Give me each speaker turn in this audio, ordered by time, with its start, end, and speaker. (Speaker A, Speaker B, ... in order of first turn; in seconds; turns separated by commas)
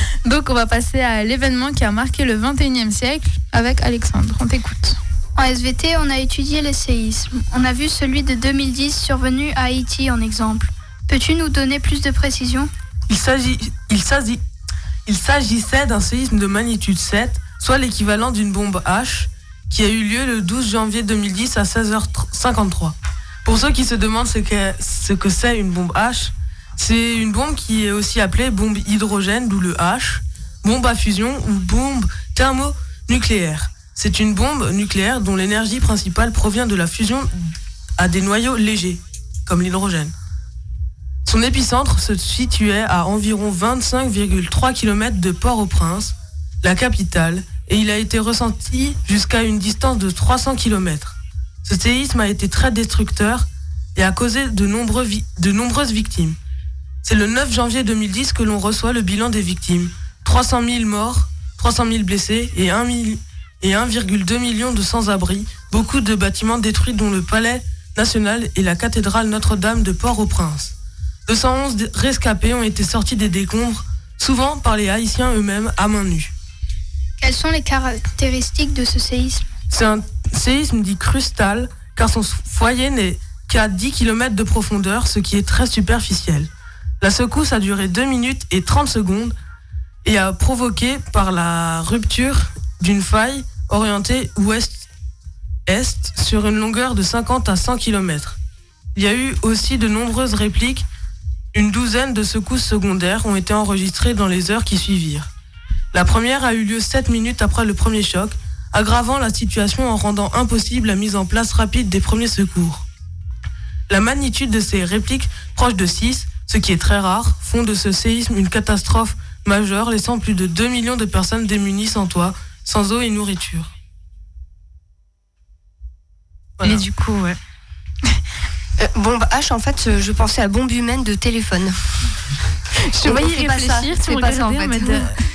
Speaker A: 0.2-5.0, Speaker B: 5.4-12.7, Speaker C: 13.1-14.4, Speaker C: 15.1-40.1, Speaker C: 41.2-56.4, Speaker C: 57.0-70.7, Speaker C: 71.3-76.3, Speaker B: 77.2-79.5, Speaker C: 79.7-86.5, Speaker C: 87.0-89.3, Speaker C: 90.0-94.9, Speaker C: 95.7-98.4, Speaker C: 99.0-100.9, Speaker C: 101.5-105.3, Speaker C: 105.9-112.8, Speaker C: 113.9-123.7, Speaker A: 126.6-127.4, Speaker D: 128.8-131.8, Speaker A: 132.9-135.1, Speaker D: 133.0-135.1